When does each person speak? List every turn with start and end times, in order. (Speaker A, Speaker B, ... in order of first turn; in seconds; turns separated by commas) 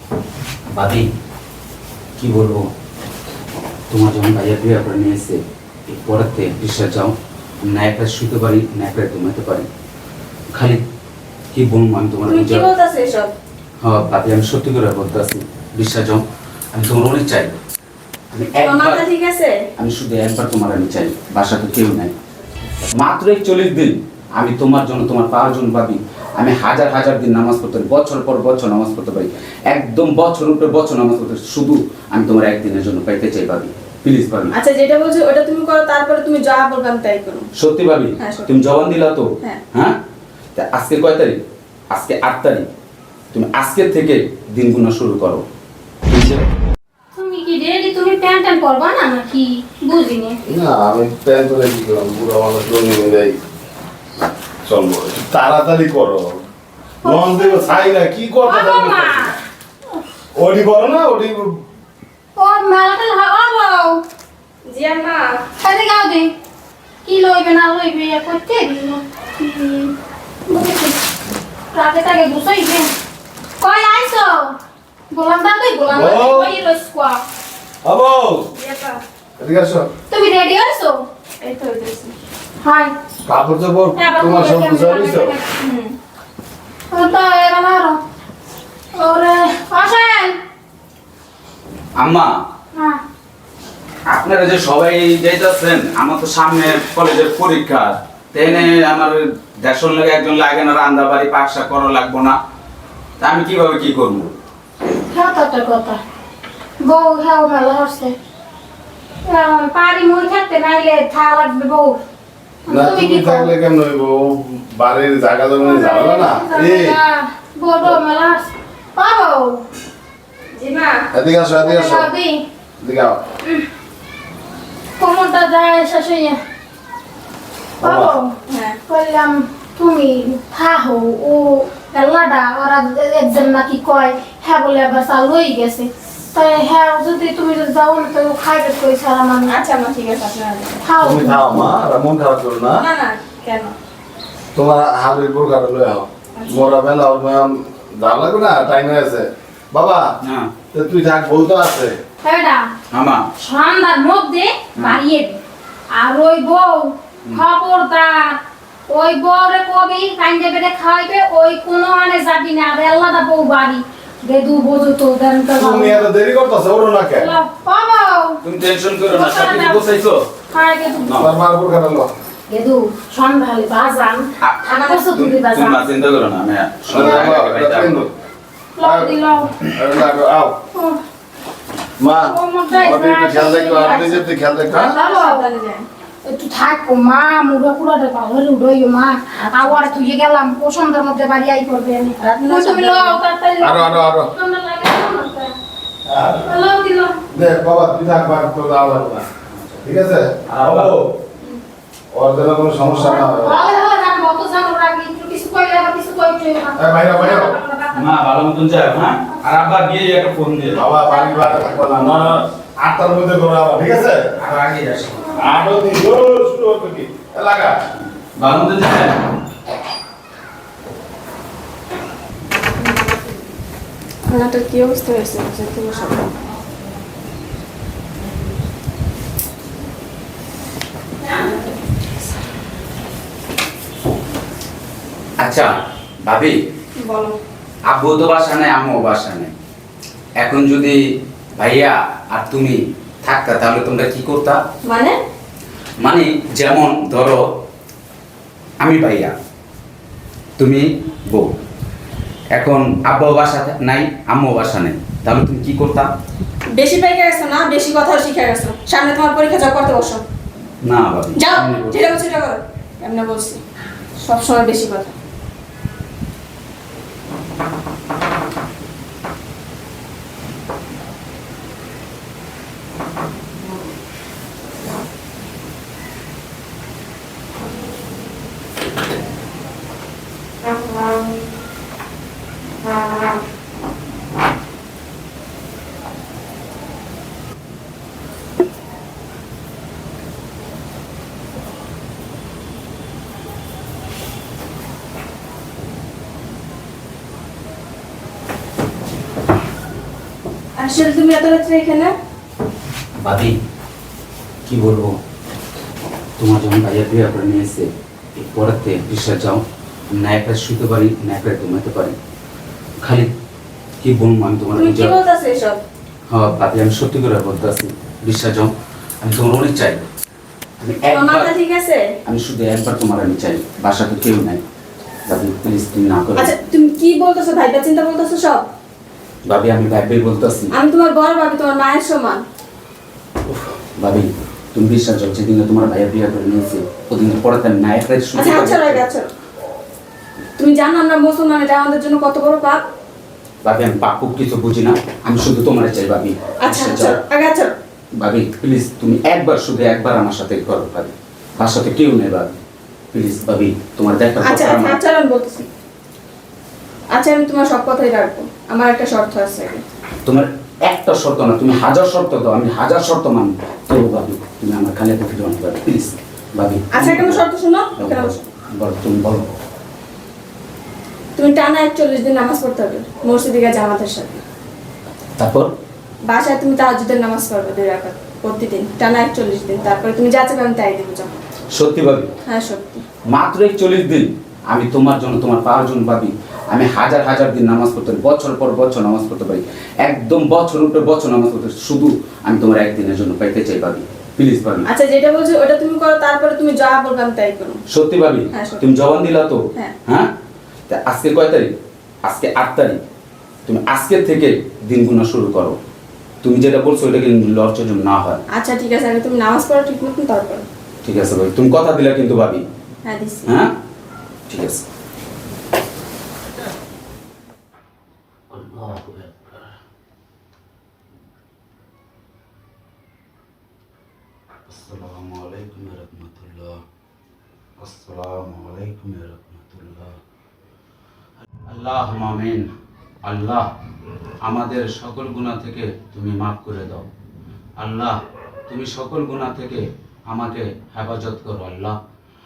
Speaker A: 0.7-1.1, Speaker A: 2.2-2.7, Speaker A: 3.9-9.7, Speaker A: 10.5-10.8, Speaker A: 11.5-12.7, Speaker B: 12.3-13.3, Speaker A: 13.8-16.2, Speaker A: 16.7-17.6, Speaker A: 18.3-19.0, Speaker B: 18.5-19.5, Speaker A: 19.8-22.1, Speaker A: 22.9-34.5, Speaker B: 34.5-37.5, Speaker A: 37.6-40.0, Speaker B: 38.2-38.6, Speaker A: 40.5-41.4, Speaker A: 41.9-42.6, Speaker A: 43.3-45.4, Speaker A: 46.1-46.4, Speaker C: 47.1-50.4, Speaker D: 50.5-53.4, Speaker D: 54.6-56.4, Speaker C: 57.0-57.9, Speaker D: 57.0-59.4, Speaker C: 58.4-59.3, Speaker D: 60.4-61.5, Speaker C: 62.4-64.0, Speaker B: 64.7-65.3, Speaker C: 65.6-66.3, Speaker C: 67.0-69.9, Speaker C: 70.5-71.0, Speaker C: 71.7-72.9, Speaker C: 73.6-74.5, Speaker C: 75.1-77.2, Speaker D: 75.9-76.6, Speaker D: 77.8-78.5, Speaker B: 78.5-79.0, Speaker D: 79.4-79.9, Speaker C: 80.1-81.0, Speaker B: 81.4-82.1, Speaker C: 82.6-83.0, Speaker D: 83.3-85.4, Speaker C: 84.0-85.5, Speaker B: 85.6-85.9, Speaker C: 86.9-88.0, Speaker C: 89.0-90.3, Speaker A: 92.0-92.3, Speaker C: 92.7-93.0, Speaker A: 94.1-102.4, Speaker A: 103.2-104.3, Speaker C: 105.1-106.0, Speaker C: 106.8-108.2, Speaker C: 109.3-112.0, Speaker C: 112.7-113.5, Speaker D: 112.7-117.0, Speaker C: 115.6-119.6, Speaker B: 120.5-121.0, Speaker D: 121.1-122.1, Speaker C: 121.6-122.4, Speaker D: 122.8-123.2, Speaker C: 125.0-126.4, Speaker D: 127.8-128.2, Speaker C: 127.8-128.3, Speaker B: 128.5-128.8, Speaker C: 128.9-139.6, Speaker B: 139.5-140.8, Speaker C: 140.8-141.5, Speaker D: 141.0-142.8, Speaker B: 142.8-143.8, Speaker D: 144.5-150.1, Speaker B: 146.4-146.7, Speaker A: 150.2-150.5, Speaker D: 150.7-152.0, Speaker C: 152.2-152.7, Speaker A: 152.9-153.2, Speaker C: 153.4-155.4, Speaker A: 154.8-155.0, Speaker C: 155.9-166.1, Speaker D: 165.6-167.3, Speaker C: 167.2-168.4, Speaker A: 168.4-170.2, Speaker C: 169.1-169.8, Speaker C: 170.5-171.2, Speaker A: 171.0-171.3, Speaker D: 171.2-172.1, Speaker C: 172.5-175.8, Speaker A: 174.4-178.0, Speaker D: 176.9-178.1, Speaker C: 176.9-177.3, Speaker C: 178.8-179.5, Speaker D: 178.8-179.2, Speaker D: 179.7-180.6, Speaker C: 180.7-181.0, Speaker D: 182.0-185.0, Speaker C: 182.3-184.2, Speaker B: 183.8-184.2, Speaker C: 184.7-185.4, Speaker B: 184.7-185.9, Speaker C: 186.2-195.6, Speaker B: 189.4-189.9, Speaker B: 192.2-193.2, Speaker D: 193.6-194.3, Speaker D: 196.1-196.5, Speaker C: 196.4-197.2, Speaker D: 197.3-199.3, Speaker A: 199.5-199.8, Speaker D: 199.8-201.1, Speaker A: 200.5-200.9, Speaker D: 202.1-203.6, Speaker C: 203.0-207.6, Speaker D: 206.8-207.6, Speaker B: 207.7-208.2, Speaker A: 207.9-210.9, Speaker D: 210.7-214.3, Speaker A: 214.4-215.4, Speaker D: 215.4-217.7, Speaker A: 218.4-219.2, Speaker B: 224.3-226.4, Speaker A: 235.4-236.6, Speaker B: 237.0-237.4, Speaker A: 237.9-239.5, Speaker A: 240.4-241.0, Speaker A: 241.6-244.6, Speaker B: 244.8-245.2, Speaker A: 246.0-247.4, Speaker A: 248.8-249.3, Speaker A: 250.6-251.5, Speaker A: 252.6-256.1, Speaker B: 256.8-260.2, Speaker A: 260.8-262.0, Speaker B: 261.4-263.6, Speaker B: 264.2-265.1, Speaker B: 300.8-302.1, Speaker A: 303.2-303.5, Speaker A: 304.7-305.2, Speaker A: 306.4-312.1, Speaker A: 313.0-313.3, Speaker A: 314.0-315.2, Speaker B: 314.8-315.8, Speaker A: 316.3-320.1, Speaker A: 320.8-321.5, Speaker B: 321.0-322.1, Speaker A: 322.2-324.6, Speaker A: 325.3-326.6, Speaker B: 326.4-328.7, Speaker A: 329.5-330.7, Speaker B: 330.7-332.4, Speaker A: 333.5-339.1, Speaker B: 338.3-339.3, Speaker B: 340.6-342.8, Speaker A: 343.6-347.2, Speaker B: 346.6-347.7, Speaker A: 348.2-352.6, Speaker A: 353.1-355.0, Speaker B: 354.4-355.7, Speaker B: 357.1-359.8, Speaker A: 360.2-367.4, Speaker B: 366.9-368.4, Speaker A: 368.0-369.5, Speaker B: 371.4-374.4, Speaker A: 375.4-375.7, Speaker B: 376.3-381.4, Speaker A: 381.7-382.3, Speaker B: 382.5-383.0, Speaker A: 383.3-394.9, Speaker B: 394.9-397.8, Speaker A: 397.9-400.3, Speaker B: 398.5-398.9, Speaker A: 400.9-401.7, Speaker A: 402.2-403.0, Speaker A: 403.7-405.8, Speaker A: 406.4-408.4, Speaker B: 408.5-410.6, Speaker A: 411.0-412.6, Speaker B: 413.1-413.5, Speaker A: 413.5-413.8, Speaker A: 414.5-414.9, Speaker A: 418.5-419.7, Speaker A: 424.7-426.8, Speaker A: 427.8-430.1, Speaker A: 431.7-432.7, Speaker A: 433.2-433.7, Speaker A: 434.4-437.1, Speaker A: 437.8-438.2, Speaker A: 438.7-442.0